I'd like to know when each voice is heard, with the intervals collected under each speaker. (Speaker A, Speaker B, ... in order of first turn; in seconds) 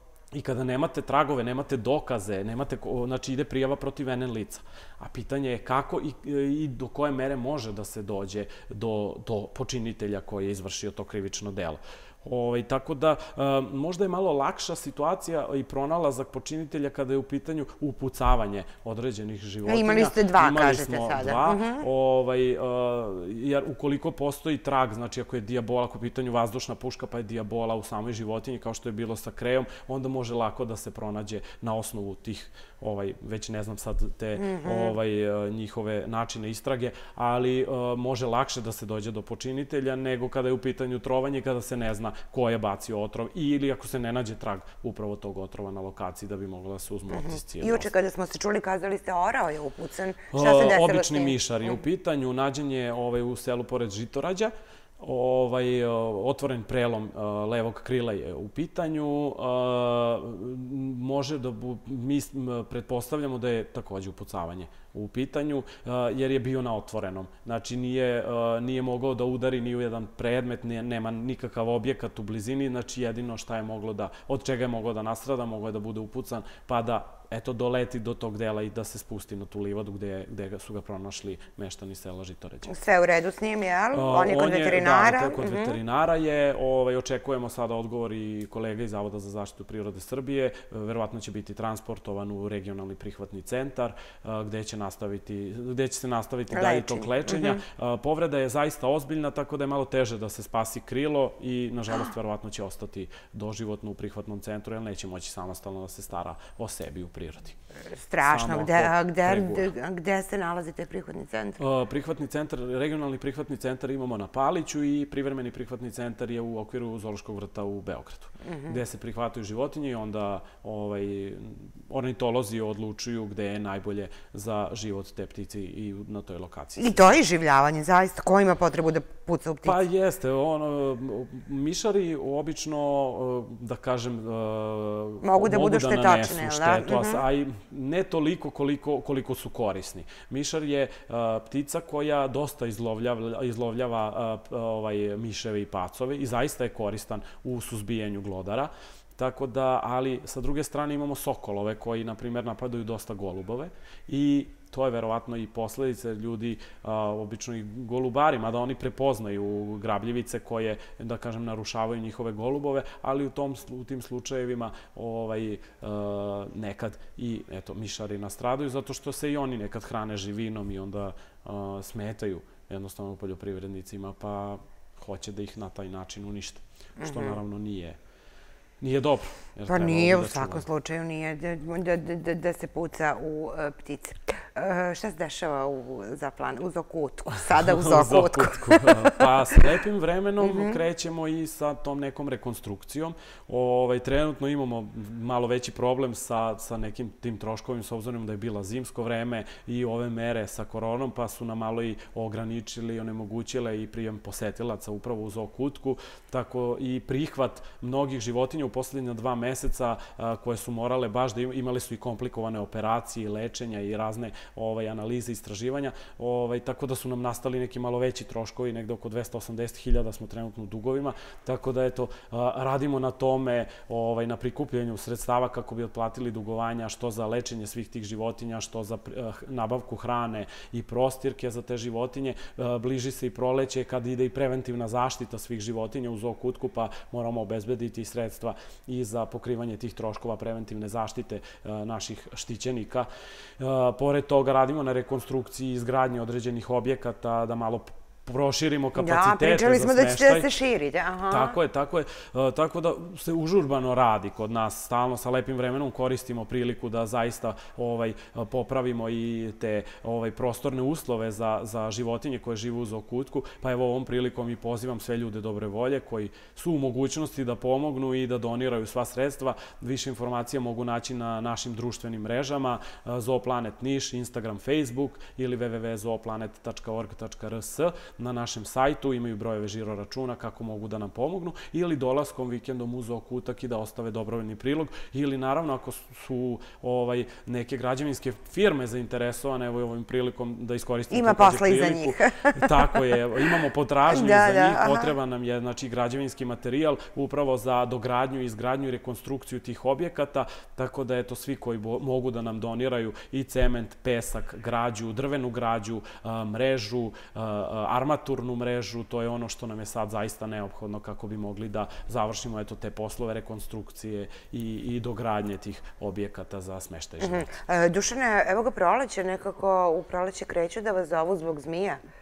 Speaker A: 0.3-47.9, 50.3-82.7, 83.9-107.6, 108.2-109.7, 111.6-127.0, 129.6-178.0, 178.8-180.7, 187.4-243.1, 243.6-250.5, 251.3-317.5
Speaker B: 19.7-21.9, 34.4-35.0, 47.1-51.4, 82.7-85.8, 96.5-97.6, 107.9-111.6, 118.4-118.8, 126.8-129.8, 135.2-137.2, 177.0-177.4, 179.7-189.3, 190.4-190.8, 249.0-251.6, 291.1-295.1, 317.2-322.0